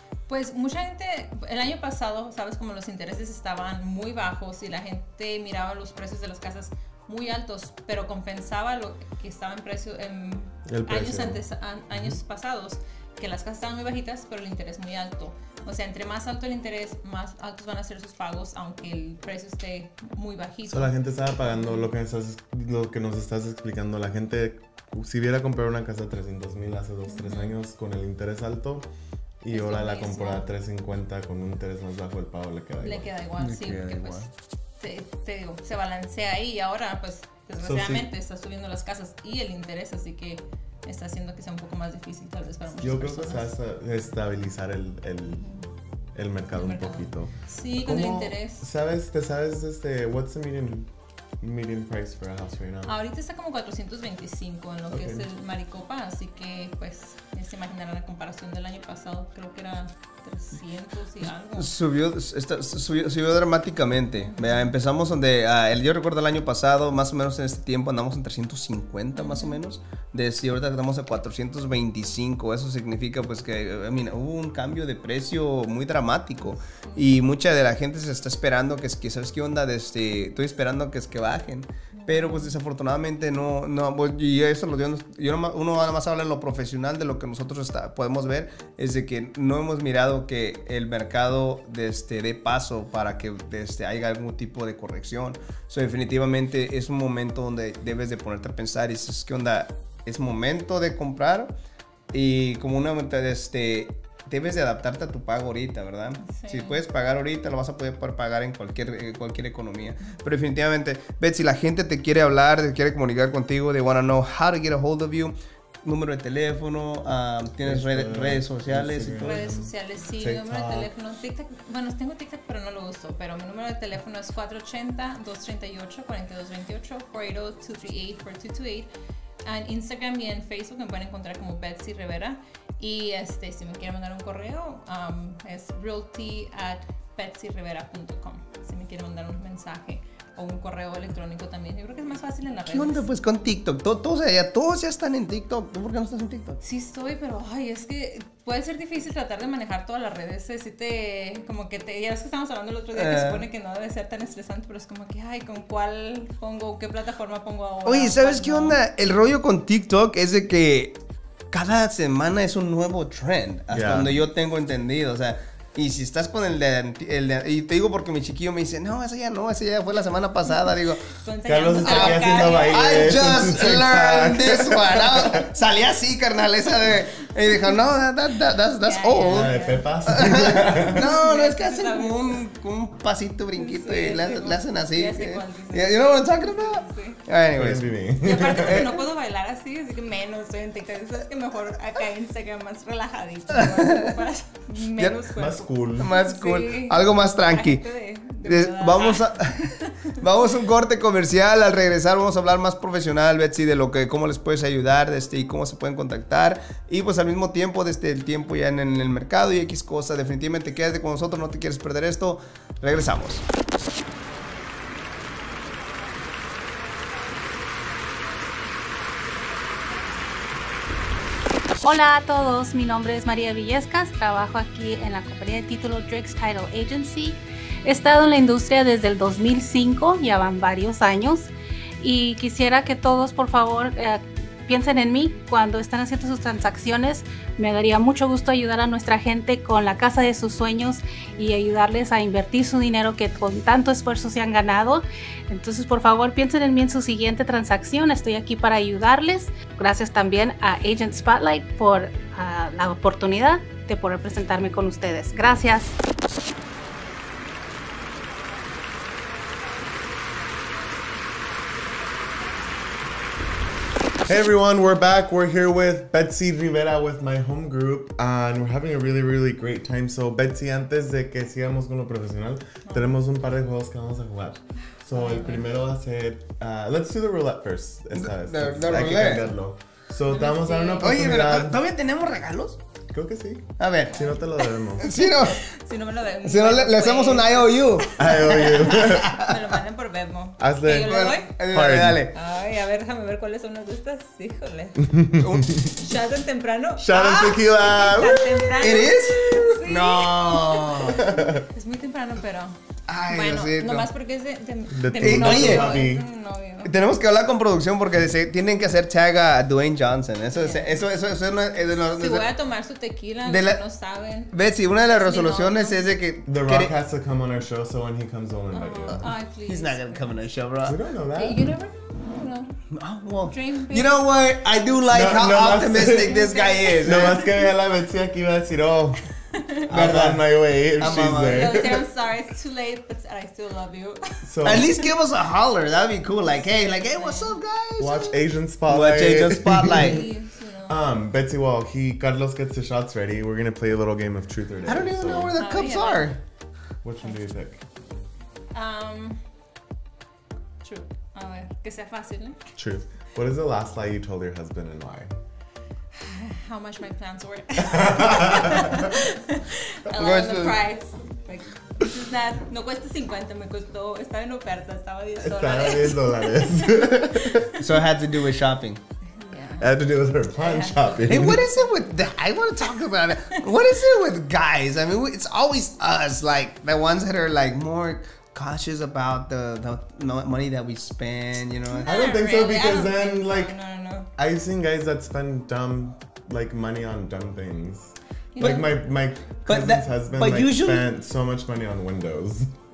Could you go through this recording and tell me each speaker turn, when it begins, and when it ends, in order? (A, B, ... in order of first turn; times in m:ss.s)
0:00.3-0:20.9 A
0:10.7-0:11.4 B
0:20.7-0:28.9 B
0:21.4-0:21.9 A
0:27.1-0:27.5 A
0:29.4-0:33.1 B
0:29.5-0:30.5 A
0:32.8-0:34.3 A
0:33.4-0:34.3 C
0:34.8-0:43.5 A
0:37.6-0:38.1 B
0:42.8-0:45.5 B
0:46.1-0:50.9 B
0:46.6-0:48.6 A
0:51.4-0:52.9 B
0:52.8-1:01.7 A
0:54.9-0:55.2 B
1:01.6-1:41.5 C
1:04.2-1:04.7 A
1:09.1-1:09.6 A
1:16.8-1:17.1 A
1:21.9-1:22.5 A
1:42.1-1:59.3 C
1:46.2-1:46.8 A
1:57.6-2:00.9 B
1:59.2-2:08.9 A
2:09.4-2:23.1 A
2:22.7-2:26.6 C
2:26.6-2:38.8 A
2:32.9-2:33.4 C
2:37.8-2:41.0 C
2:41.5-2:51.1 C
2:43.7-2:44.2 B
2:51.2-2:53.1 A
2:51.5-2:55.5 B
2:51.7-3:07.9 C
2:58.8-2:59.9 A
2:59.2-3:01.0 B
3:00.9-3:02.4 A
3:03.6-3:07.2 A
3:07.5-3:08.9 B
3:08.2-3:20.2 A
3:08.5-3:09.0 C
3:13.6-3:14.1 C
3:15.3-3:16.1 B
3:16.0-3:17.8 C
3:18.4-3:33.4 C
3:41.8-3:51.5 D
3:52.0-4:16.0 D
4:24.2-4:41.8 B
4:32.8-4:33.1 A
4:35.1-4:35.7 A
4:38.2-4:39.5 C
4:40.3-4:41.2 A
4:41.0-4:42.8 C
4:43.1-4:45.1 B
4:43.8-4:44.3 C
4:44.1-4:44.4 A
4:45.0-4:45.6 C
4:45.0-4:51.5 A
4:46.4-4:49.6 C
4:48.2-4:49.4 B
4:50.6-4:52.2 B
4:51.0-4:52.3 C
4:52.3-4:55.3 A
4:55.1-4:55.9 B
4:55.4-4:55.9 C
4:55.8-5:06.9 A
4:57.0-4:58.8 B
4:58.8-5:01.3 C
5:01.2-5:01.6 B
5:03.1-5:04.1 C
5:04.9-5:06.2 B
5:05.2-5:06.2 C
5:06.8-5:12.5 C
5:10.5-5:11.1 A
5:11.8-5:16.1 A
5:13.4-5:13.8 C
5:14.5-5:16.9 C
5:16.4-5:19.2 B
5:18.7-5:20.4 A
5:19.1-5:21.0 C
5:20.8-5:21.6 B
5:21.4-5:22.8 A
5:22.9-5:27.4 C
5:23.5-5:24.1 A
5:25.1-5:26.4 B
5:26.2-5:27.5 A
5:27.0-5:29.2 B
5:29.5-5:29.8 A
5:29.9-5:32.0 B
5:29.9-5:31.9 C
5:31.5-5:35.1 A
5:34.4-5:34.9 B
5:34.6-5:40.2 C
5:36.4-5:37.6 A
5:38.0-5:40.2 B
5:39.9-5:41.0 A
5:40.9-5:45.6 B
5:44.8-5:46.4 C
5:45.6-5:46.4 A
5:47.0-5:47.8 B
5:48.7-5:49.4 A
5:50.8-5:52.7 A
5:52.8-5:55.4 B
5:56.1-6:07.8 A
5:57.9-5:59.0 B
6:00.1-6:00.8 C
6:05.4-6:07.7 B
6:07.8-6:09.0 C
6:09.3-6:09.9 A
6:09.8-6:11.8 B
6:10.6-6:11.7 A
6:11.3-6:22.1 C
6:21.9-6:24.3 A
6:22.0-6:23.7 B
6:24.4-6:32.7 B
6:28.5-6:28.9 A
6:29.6-6:31.0 C